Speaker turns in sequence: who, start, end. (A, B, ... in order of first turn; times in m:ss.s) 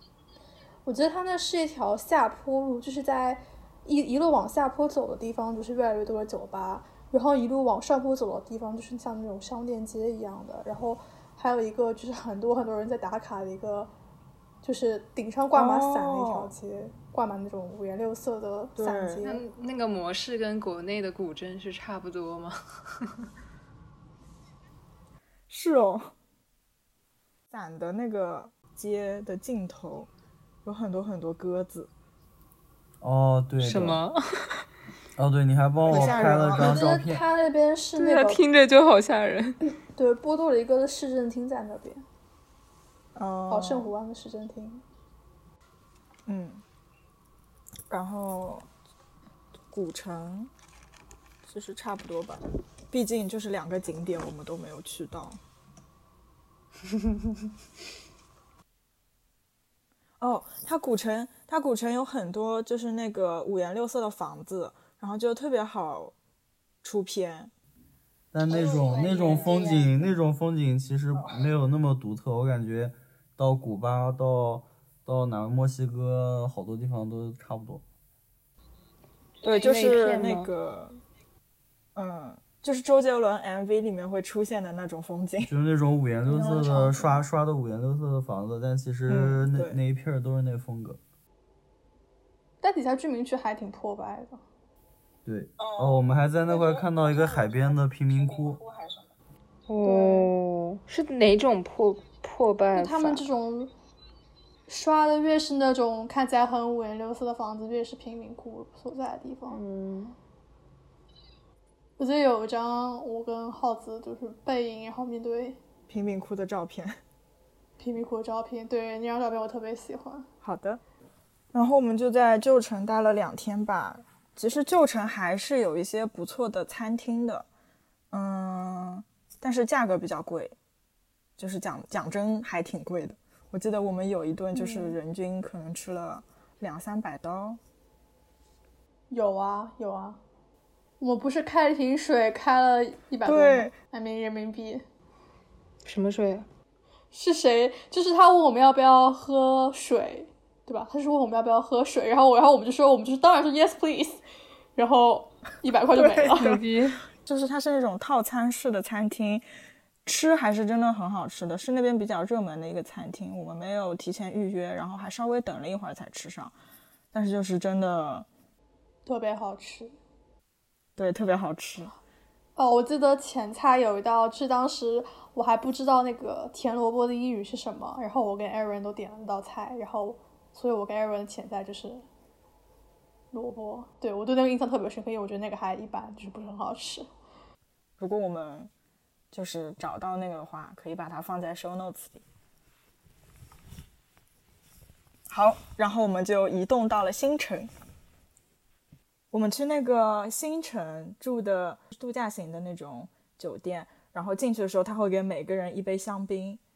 0:00.8-0:13.9 A
0:14.6-0:19.4 A
0:15.5-0:16.5 B
0:18.8-0:19.2 B
0:19.2-0:23.1 C
0:25.5-0:26.1 B
0:27.5-0:30.1 B
0:30.6-0:31.9 B
0:33.0-0:34.0 D
0:33.6-0:34.6 C
0:35.2-0:37.2 D
0:35.9-0:36.8 B
0:35.9-0:38.4 A
0:38.0-0:39.6 C
0:39.9-0:42.0 A
0:43.2-0:43.9 B
0:43.5-0:44.8 A
0:46.3-0:46.6 B
0:47.9-0:48.7 B
0:49.7-0:50.5 B
0:51.4-0:55.4 B
1:00.2-1:06.1 B
1:06.8-1:07.5 B
1:08.3-1:17.8 D
1:19.4-1:21.0 B
1:19.5-1:20.5 C
1:22.0-1:25.5 B
1:25.4-1:31.0 D
1:26.3-1:27.2 B
1:29.1-1:29.8 B
1:32.6-1:34.4 A
1:35.2-1:38.6 D
1:39.7-1:43.2 C
1:39.8-1:40.3 B
1:42.7-1:43.7 A
1:44.7-1:49.6 A
1:49.5-1:50.2 C
1:52.0-1:55.6 A
1:55.9-1:57.0 B
1:57.8-2:00.3 A
2:00.4-2:00.8 B
2:01.5-2:07.5 B
2:08.1-2:10.6 B
2:11.4-2:17.6 B
2:14.6-2:14.9 A
2:19.1-2:20.2 A
2:21.0-2:24.8 A
2:23.2-2:23.7 B
2:25.8-2:26.5 C
2:27.1-2:34.2 A
2:34.8-2:36.6 A
2:35.9-2:36.6 B
2:36.4-2:37.0 C
2:37.2-2:39.4 B
2:40.0-2:46.5 B
2:47.1-2:48.3 B
2:49.1-2:50.0 A
2:51.0-2:51.9 B
2:52.6-3:02.0 A
3:03.3-3:07.1 A
3:08.0-3:08.7 B
3:09.3-3:12.2 B
3:15.3-3:17.7 B
3:19.3-3:26.6 B